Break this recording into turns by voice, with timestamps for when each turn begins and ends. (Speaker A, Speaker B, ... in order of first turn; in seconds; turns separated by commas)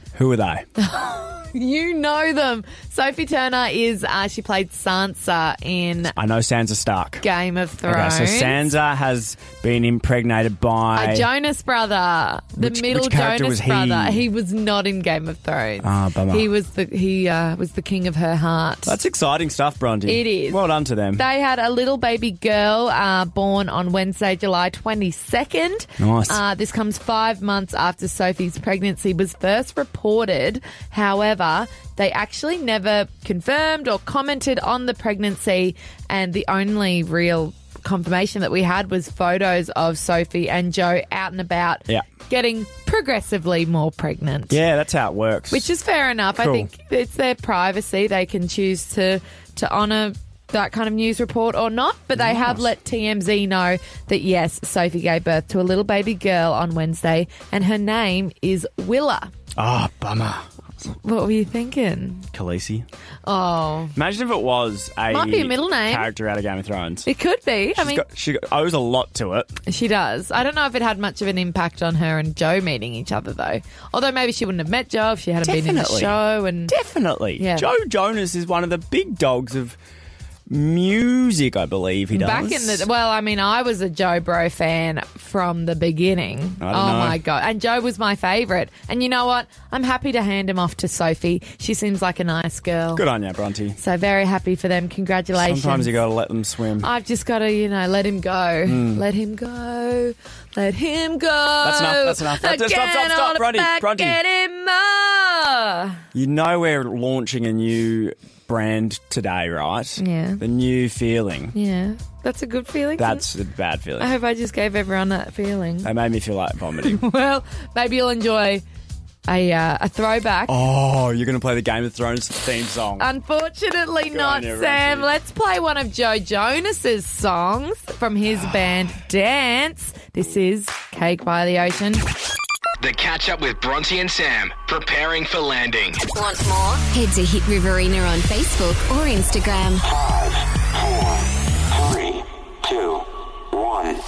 Speaker A: 0.1-0.6, Speaker B: 0.8-6.1, Speaker A: 6.1-7.2, Speaker B: 7.2-8.7, Speaker A: 7.8-11.3, Speaker B: 10.9-18.9, Speaker A: 12.6-14.3, Speaker A: 15.8-16.5, Speaker A: 18.9-21.2, Speaker B: 20.1-20.6, Speaker B: 21.1-44.6, Speaker A: 26.0-26.4, Speaker A: 44.5-45.7, Speaker B: 45.5-59.3, Speaker A: 46.4-46.7, Speaker A: 52.2-52.6, Speaker A: 59.6-60.5, Speaker B: 60.9-62.3, Speaker A: 62.3-62.8, Speaker B: 63.2-63.9, Speaker A: 63.9-67.0, Speaker B: 65.1-66.1, Speaker B: 67.0-68.0, Speaker A: 67.8-69.5, Speaker B: 69.7-76.7, Speaker A: 75.4-76.2, Speaker A: 76.7-79.8, Speaker B: 77.4-77.7, Speaker A: 80.5-82.8, Speaker B: 82.1-93.0, Speaker A: 86.6-87.2, Speaker A: 92.9-93.8, Speaker B: 93.8-95.9, Speaker A: 95.3-96.9, Speaker B: 96.8-106.0, Speaker A: 98.7-99.0, Speaker A: 101.6-104.2, Speaker A: 106.1-111.5, Speaker B: 110.0-110.4, Speaker B: 111.5-113.2, Speaker A: 113.0-114.1, Speaker B: 114.0-115.9, Speaker A: 115.8-117.0, Speaker B: 116.8-118.6, Speaker B: 119.3-120.5, Speaker A: 120.5-123.1, Speaker B: 123.0-132.0, Speaker A: 124.1-125.1, Speaker C: 132.8-136.1, Speaker D: 136.1-139.9